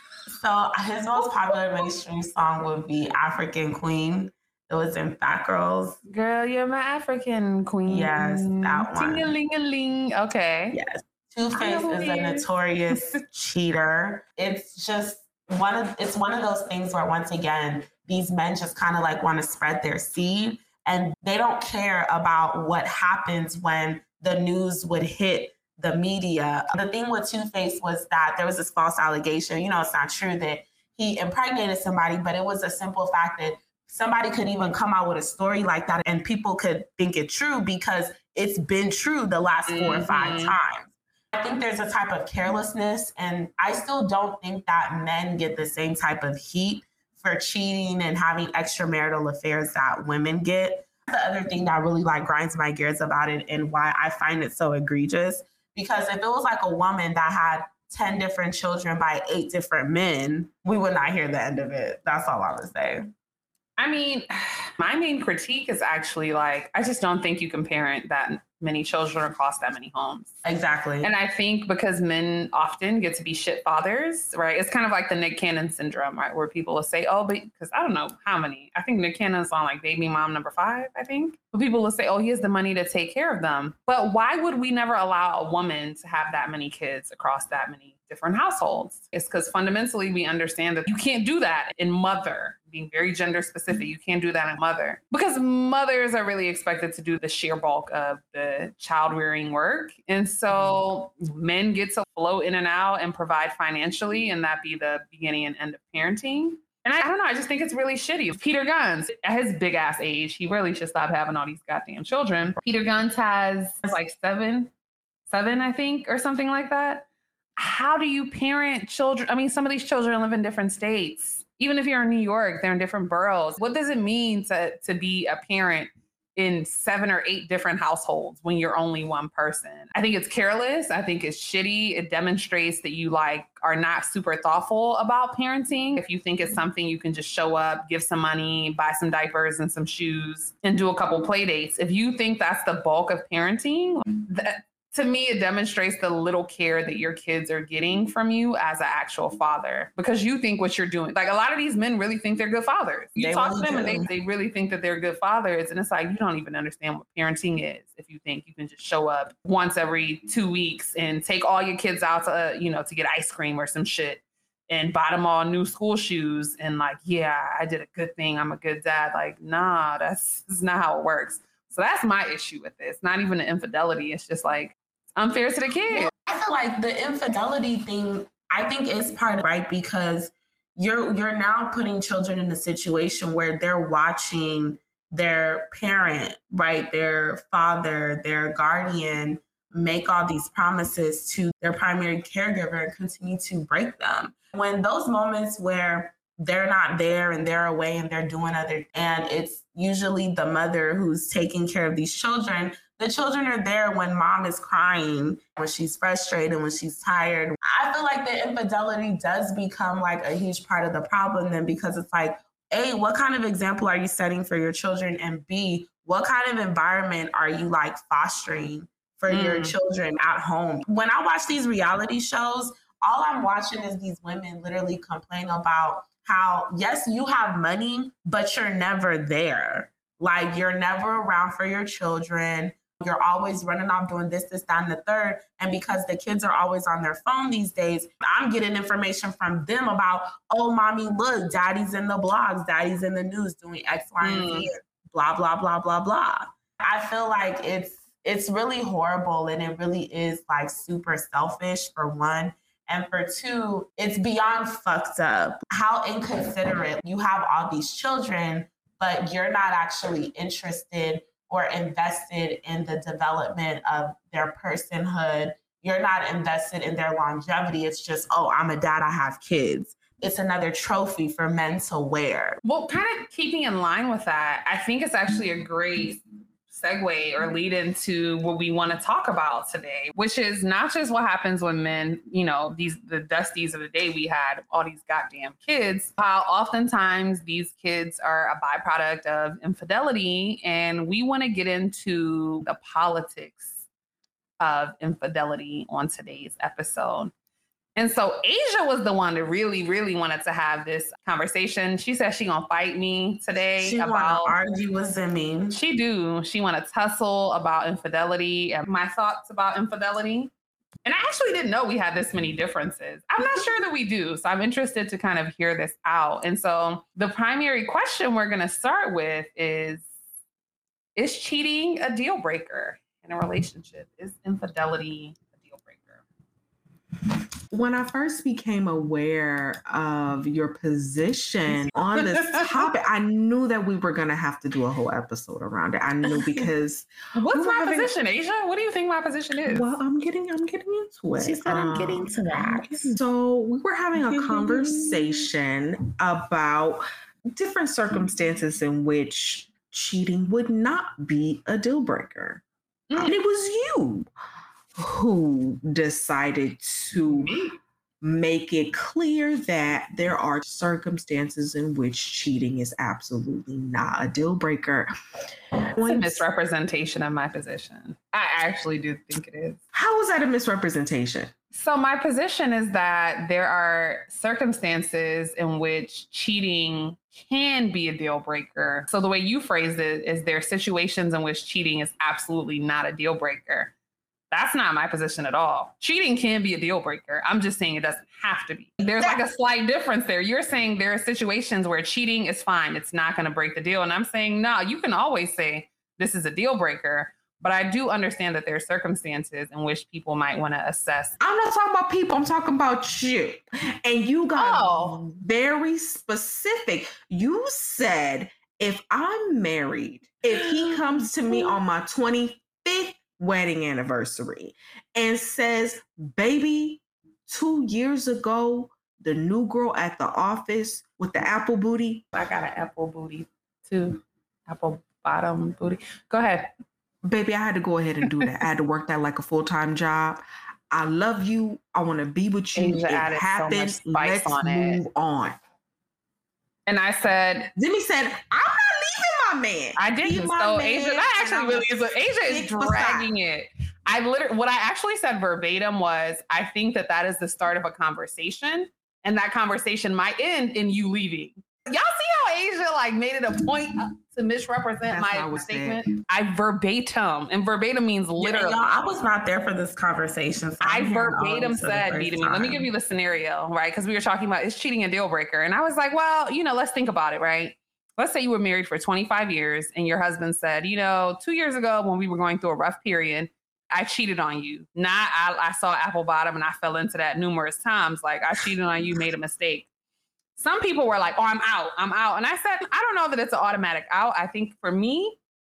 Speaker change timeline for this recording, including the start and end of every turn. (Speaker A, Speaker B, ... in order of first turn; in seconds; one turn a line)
Speaker A: 0.3-6.0
Speaker B: 1.2-1.5
Speaker B: 6.1-10.8
Speaker A: 7.9-9.3
Speaker A: 10.7-63.0
Speaker B: 11.5-13.2
Speaker B: 39.7-40.5
Speaker B: 63.8-70.3
Speaker A: 70.4-71.1
Speaker B: 71.0-114.7
Speaker B: 115.3-176.1
Speaker A: 153.2-154.1
Speaker A: 175.9-272.6
Speaker B: 219.3-219.7
Speaker B: 244.2-244.7
Speaker B: 272.6-293.7
Speaker B: 294.6-297.3
Speaker B: 297.9-304.5
Speaker A: 303.8-305.8
Speaker B: 305.7-310.5
Speaker B: 311.0-320.1
Speaker B: 321.1-326.2
Speaker C: 327.7-338.1
Speaker B: 331.7-332.8
Speaker B: 337.3-340.0
Speaker C: 339.6-352.6
Speaker A: 341.4-343.2
Speaker A: 344.2-345.4
Speaker B: 353.1-353.4
Speaker C: 353.2-354.3
Speaker C: 355.0-357.5
Speaker B: 357.1-357.8
Speaker C: 358.2-365.1
Speaker C: 365.8-366.4
Speaker B: 366.0-369.8
Speaker C: 369.9-371.5
Speaker B: 371.7-383.9
Speaker B: 384.5-401.3
Speaker C: 401.4-422.2
Speaker B: 404.6-405.2
Speaker B: 422.3-426.7
Speaker C: 427.2-435.6
Speaker B: 428.2-428.5
Speaker B: 432.7-435.0
Speaker B: 436.9-437.7
Speaker C: 437.8-443.3
Speaker B: 440.0-458.8
Speaker C: 455.1-456.0
Speaker A: 458.4-462.9
Speaker B: 460.8-479.9
Speaker B: 480.6-485.4